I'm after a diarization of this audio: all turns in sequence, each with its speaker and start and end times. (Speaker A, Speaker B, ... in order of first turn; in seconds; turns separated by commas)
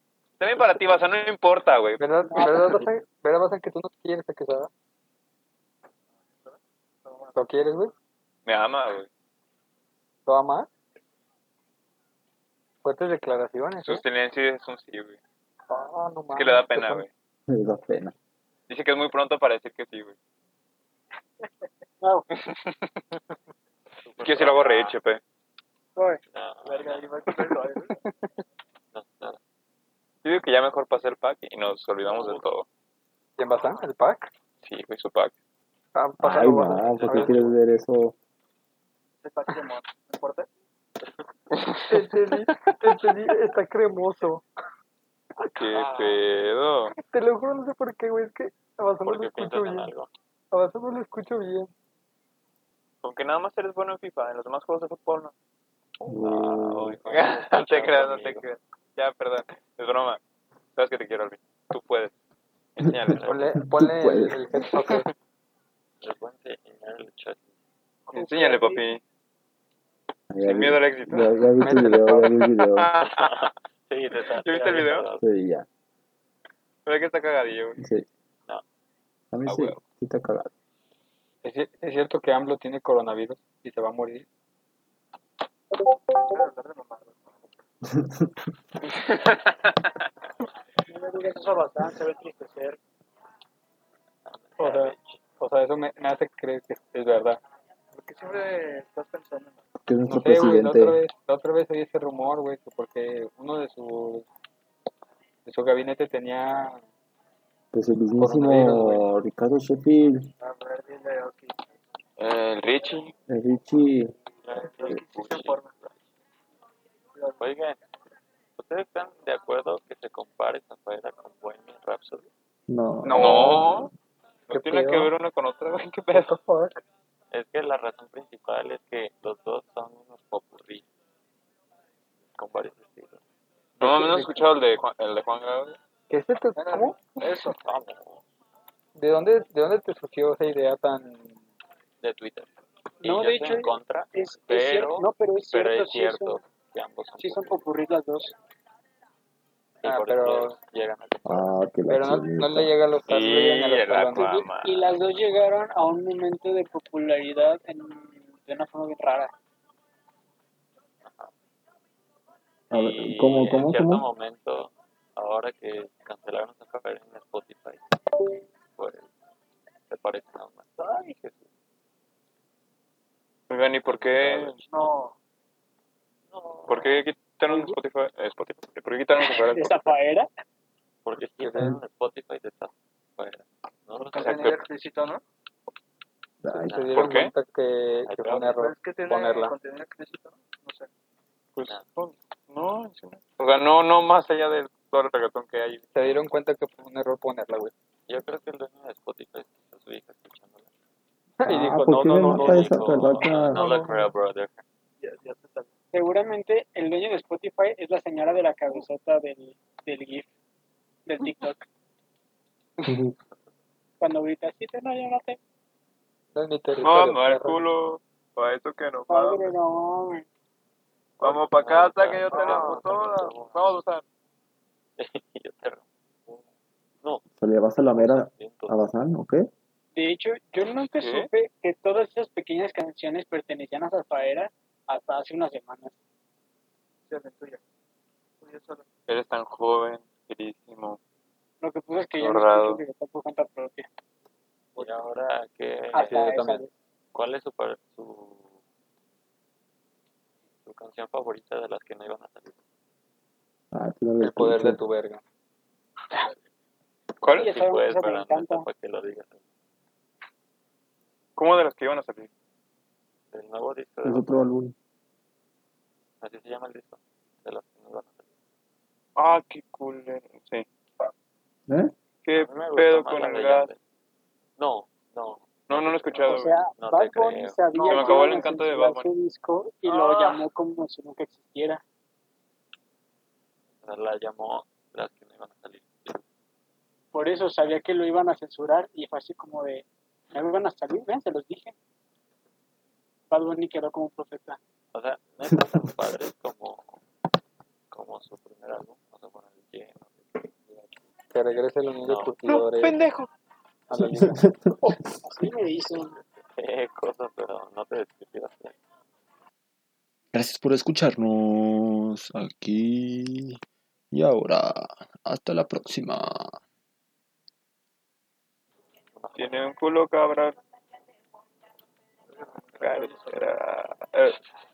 Speaker A: 0.4-2.5, Speaker B: 2.0-4.7, Speaker C: 2.3-2.8, Speaker D: 6.4-7.4, Speaker B: 7.4-7.9, Speaker A: 8.5-9.1, Speaker B: 10.3-10.7, Speaker B: 12.8-14.0, Speaker A: 13.8-15.2, Speaker B: 15.7-17.1, Speaker A: 16.3-17.1, Speaker E: 17.5-18.1, Speaker A: 18.7-20.1, Speaker C: 22.0-22.3, Speaker A: 22.3-22.9, Speaker F: 24.0-25.0, Speaker A: 24.2-25.2, Speaker C: 26.0-26.2, Speaker F: 26.3-27.4, Speaker D: 26.7-27.9, Speaker C: 26.8-27.9, Speaker F: 28.9-29.4, Speaker A: 30.2-32.7, Speaker F: 32.0-32.5, Speaker B: 33.4-34.3, Speaker A: 34.6-35.3, Speaker B: 36.0-37.5, Speaker E: 36.2-38.1, Speaker F: 36.6-37.6, Speaker D: 39.2-40.5, Speaker F: 41.0-41.3, Speaker B: 41.9-44.5, Speaker A: 42.5-42.8, Speaker A: 45.4-46.9, Speaker F: 45.7-46.3, Speaker B: 46.9-49.9, Speaker F: 49.0-50.1, Speaker B: 50.5-51.7, Speaker A: 53.0-55.3, Speaker F: 56.0-58.5, Speaker E: 56.1-57.0, Speaker A: 56.6-60.2, Speaker A: 60.8-62.1, Speaker A: 62.8-63.2, Speaker E: 63.1-64.6, Speaker F: 63.1-63.6, Speaker B: 63.3-65.1, Speaker F: 66.0-67.5, Speaker A: 68.1-69.0, Speaker C: 68.1-68.8, Speaker E: 70.3-72.9, Speaker A: 70.4-71.3, Speaker B: 71.6-72.3, Speaker A: 72.2-73.5, Speaker F: 73.1-75.2, Speaker A: 74.2-75.1, Speaker E: 75.2-75.7, Speaker A: 76.9-77.8, Speaker E: 77.8-78.1, Speaker E: 79.3-80.5, Speaker A: 79.5-79.8, Speaker B: 81.4-84.3, Speaker D: 86.1-87.2, Speaker E: 87.9-88.3, Speaker A: 89.0-89.9, Speaker C: 90.9-92.1, Speaker D: 91.6-92.8, Speaker F: 94.3-95.2, Speaker B: 94.6-97.4, Speaker D: 97.9-99.6, Speaker E: 99.8-101.0, Speaker B: 100.1-104.3, Speaker B: 105.5-106.8, Speaker E: 107.7-110.3, Speaker B: 108.2-109.0, Speaker D: 110.4-111.6, Speaker A: 112.2-113.1, Speaker E: 113.3-114.2, Speaker F: 114.4-115.9, Speaker D: 114.7-115.7, Speaker D: 117.1-117.4, Speaker F: 117.4-117.8, Speaker F: 118.6-122.3, Speaker E: 122.7-123.9, Speaker B: 123.0-123.7, Speaker A: 123.1-123.9, Speaker B: 124.5-125.1, Speaker A: 124.5-126.3, Speaker B: 126.1-126.8, Speaker F: 127.3-130.9, Speaker F: 132.3-133.2, Speaker A: 133.8-135.8, Speaker B: 133.8-134.4, Speaker B: 136.1-137.0, Speaker D: 136.6-137.5, Speaker C: 137.2-137.5, Speaker F: 137.6-138.2, Speaker B: 139.0-141.4, Speaker F: 142.0-142.5, Speaker F: 143.0-147.7, Speaker C: 143.0-146.4, Speaker C: 147.2-148.3, Speaker F: 149.8-151.5, Speaker B: 149.8-150.6, Speaker E: 151.2-152.7, Speaker B: 151.9-154.4, Speaker A: 153.1-154.9, Speaker C: 154.2-159.3, Speaker F: 161.0-161.3, Speaker E: 162.7-164.1, Speaker F: 162.7-167.8, Speaker F: 168.7-169.1, Speaker F: 169.9-171.5, Speaker A: 173.5-174.8, Speaker F: 173.8-174.7, Speaker D: 174.7-175.2, Speaker F: 176.3-177.0, Speaker A: 176.7-179.9, Speaker C: 177.5-177.8, Speaker C: 179.2-180.3, Speaker F: 181.1-184.7, Speaker B: 181.4-181.8, Speaker A: 184.1-184.6, Speaker D: 184.2-185.2, Speaker E: 186.4-186.8, Speaker B: 186.5-189.6, Speaker F: 186.6-187.1, Speaker A: 186.9-187.3, Speaker F: 188.1-188.6, Speaker D: 188.6-190.9, Speaker A: 191.6-195.8, Speaker B: 195.9-197.7, Speaker F: 198.1-200.7, Speaker B: 201.4-203.0, Speaker E: 201.4-203.6, Speaker F: 201.8-204.6, Speaker D: 205.0-205.7, Speaker C: 205.1-210.3, Speaker C: 211.1-211.7, Speaker E: 212.9-213.1, Speaker C: 214.0-215.4, Speaker B: 216.3-217.6, Speaker A: 216.8-219.6, Speaker C: 219.1-220.2, Speaker A: 221.2-224.0, Speaker F: 221.2-223.8, Speaker C: 222.3-222.8, Speaker F: 225.0-226.4, Speaker E: 227.4-229.5, Speaker F: 227.8-228.8, Speaker C: 230.0-235.9, Speaker A: 230.6-231.3, Speaker D: 237.1-237.6, Speaker D: 238.4-238.8, Speaker A: 239.1-241.0, Speaker C: 241.6-243.9, Speaker A: 242.2-242.8, Speaker F: 244.8-246.4, Speaker C: 245.9-246.7, Speaker B: 246.0-246.7, Speaker F: 247.1-248.5, Speaker F: 250.6-252.6, Speaker E: 253.7-254.8, Speaker B: 254.2-255.2, Speaker A: 257.2-257.5, Speaker F: 257.4-259.4, Speaker C: 257.4-258.7, Speaker A: 261.4-262.3, Speaker F: 263.3-264.4, Speaker E: 264.0-264.8, Speaker F: 266.2-268.2, Speaker A: 269.2-270.7, Speaker E: 271.7-271.9, Speaker A: 272.2-273.7, Speaker F: 272.3-273.8, Speaker F: 274.6-277.9, Speaker A: 275.7-276.6, Speaker C: 276.2-281.8, Speaker A: 277.8-279.1, Speaker A: 279.9-280.4, Speaker F: 283.8-286.2, Speaker C: 287.1-291.8, Speaker C: 293.3-294.6, Speaker F: 294.9-297.0, Speaker F: 297.9-300.9, Speaker B: 301.3-303.0, Speaker F: 302.0-302.5, Speaker A: 302.8-303.3, Speaker B: 303.9-304.5, Speaker E: 304.0-305.1, Speaker C: 305.2-306.2, Speaker F: 306.2-308.8, Speaker E: 310.3-311.2, Speaker G: 310.4-313.5, Speaker E: 312.3-312.6, Speaker E: 314.2-314.8, Speaker G: 314.2-314.7, Speaker E: 315.3-316.2, Speaker G: 315.5-315.9, Speaker F: 319.2-319.6, Speaker A: 319.4-320.6, Speaker A: 322.8-324.4